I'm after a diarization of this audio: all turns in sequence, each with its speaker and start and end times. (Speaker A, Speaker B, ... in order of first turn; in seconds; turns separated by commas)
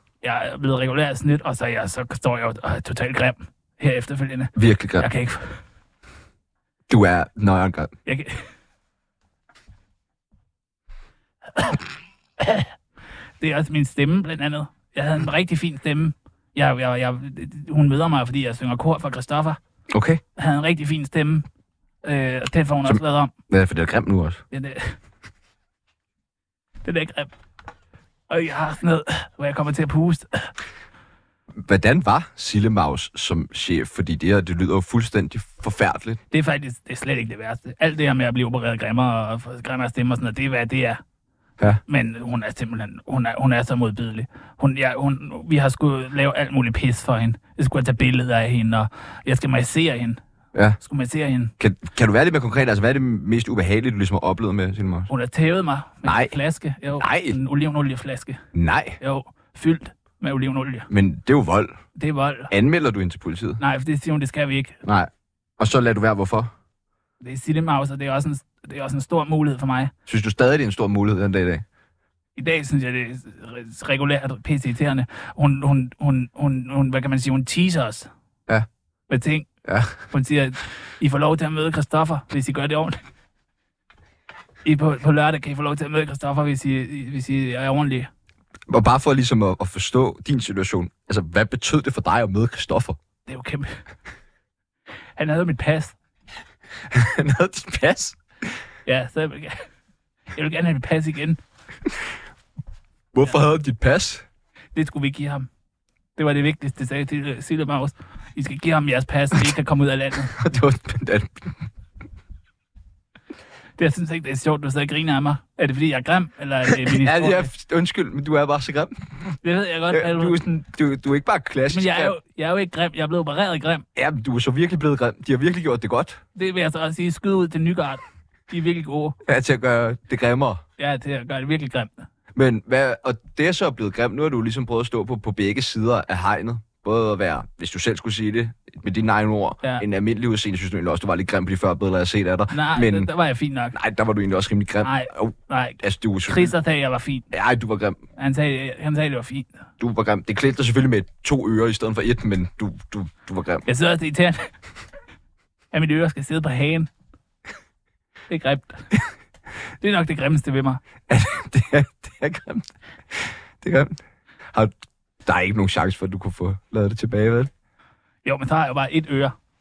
Speaker A: 0.2-5.6, Speaker B: 4.5-5.1, Speaker B: 6.9-7.9, Speaker A: 8.1-8.4, Speaker A: 12.4-12.7, Speaker A: 13.4-19.6, Speaker B: 19.9-20.2, Speaker A: 20.4-21.4, Speaker A: 22.0-23.3, Speaker B: 22.8-24.4, Speaker A: 24.5-24.9, Speaker A: 26.8-27.3, Speaker A: 28.3-30.5, Speaker B: 31.6-36.2, Speaker A: 36.3-41.0, Speaker A: 41.9-50.2, Speaker A: 50.8-51.5, Speaker B: 51.6-55.1, Speaker A: 55.1-58.4, Speaker B: 56.0-56.4, Speaker B: 57.0-57.4, Speaker B: 58.5-59.0, Speaker A: 59.0-60.9, Speaker B: 60.9-61.8, Speaker A: 62.0-62.5, Speaker B: 62.5-63.6, Speaker A: 63.6-64.8, Speaker B: 64.8-66.5, Speaker A: 67.2-69.9, Speaker B: 70.1-71.6, Speaker A: 72.4-78.1, Speaker A: 79.1-79.5, Speaker B: 79.6-80.0, Speaker A: 80.1-83.0, Speaker A: 84.6-88.1, Speaker B: 88.7-93.0, Speaker A: 93.3-93.7, Speaker A: 95.2-95.9, Speaker B: 96.9-98.2, Speaker A: 98.8-99.6, Speaker A: 100.3-101.4, Speaker B: 103.1-104.2, Speaker A: 104.7-105.5, Speaker A: 106.2-110.3, Speaker B: 110.4-111.5, Speaker A: 113.8-117.5, Speaker B: 116.7-118.9, Speaker A: 119.4-120.4, Speaker B: 119.9-122.2, Speaker A: 121.7-123.8, Speaker B: 123.9-126.2, Speaker A: 126.3-129.2, Speaker B: 129.2-130.6, Speaker A: 130.8-131.9, Speaker B: 132.3-143.1, Speaker A: 142.5-143.8, Speaker B: 143.7-146.5, Speaker A: 144.8-147.3, Speaker B: 147.3-148.0, Speaker A: 148.2-149.5, Speaker B: 149.8-153.6, Speaker A: 153.7-154.5, Speaker A: 155.7-156.9, Speaker A: 158.3-158.8, Speaker A: 159.8-160.8, Speaker B: 161.1-164.0, Speaker B: 164.5-167.5, Speaker A: 168.2-169.3